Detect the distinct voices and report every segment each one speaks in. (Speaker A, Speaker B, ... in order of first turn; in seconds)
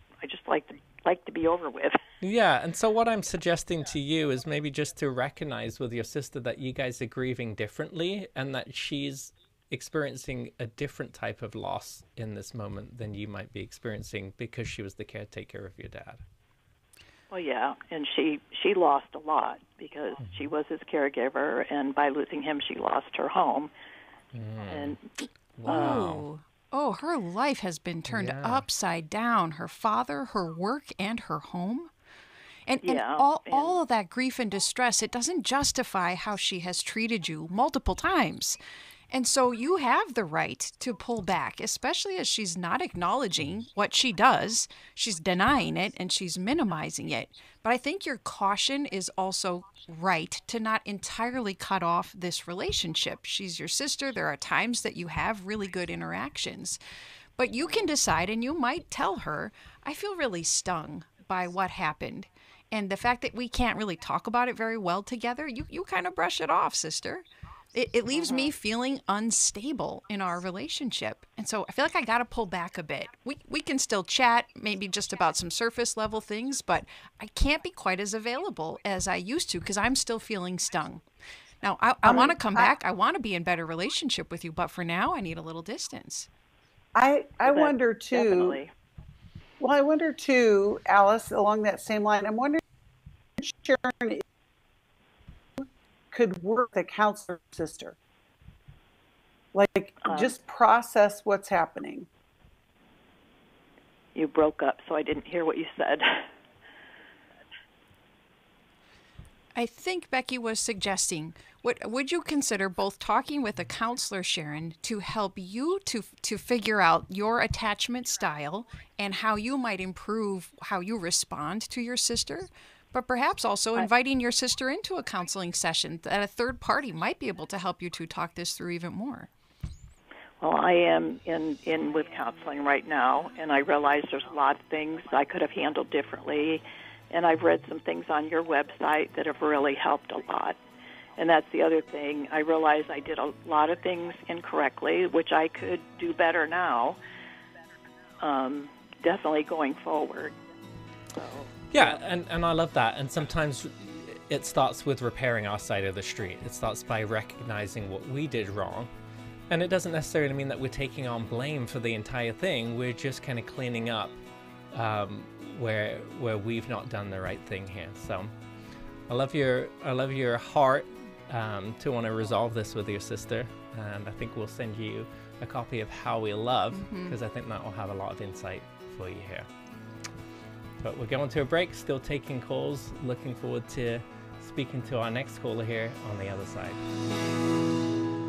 Speaker A: 0.2-2.0, 17.3-23.7, 24.7-25.1, 25.7-26.0, 32.8-33.8, 68.1-68.5, 82.1-82.4, 87.4-88.7, 100.0-100.3, 104.1-106.2, 130.4-140.6, 141.2-147.0, 148.2-150.3, 151.1-152.0
Speaker B: 2.2-16.2, 20.2-20.5, 24.3-25.0, 25.6-26.3, 28.1-28.6, 151.7-158.9, 159.5-164.2, 164.7-168.3, 169.1-179.5, 180.8-186.8
Speaker C: 25.6-31.9, 32.7-38.6, 39.1-56.8, 57.4-81.0, 81.6-86.3, 109.5-129.3, 176.7-177.2
Speaker D: 86.9-88.6, 89.6-92.6, 93.4-94.2, 95.6-98.0, 99.5-102.0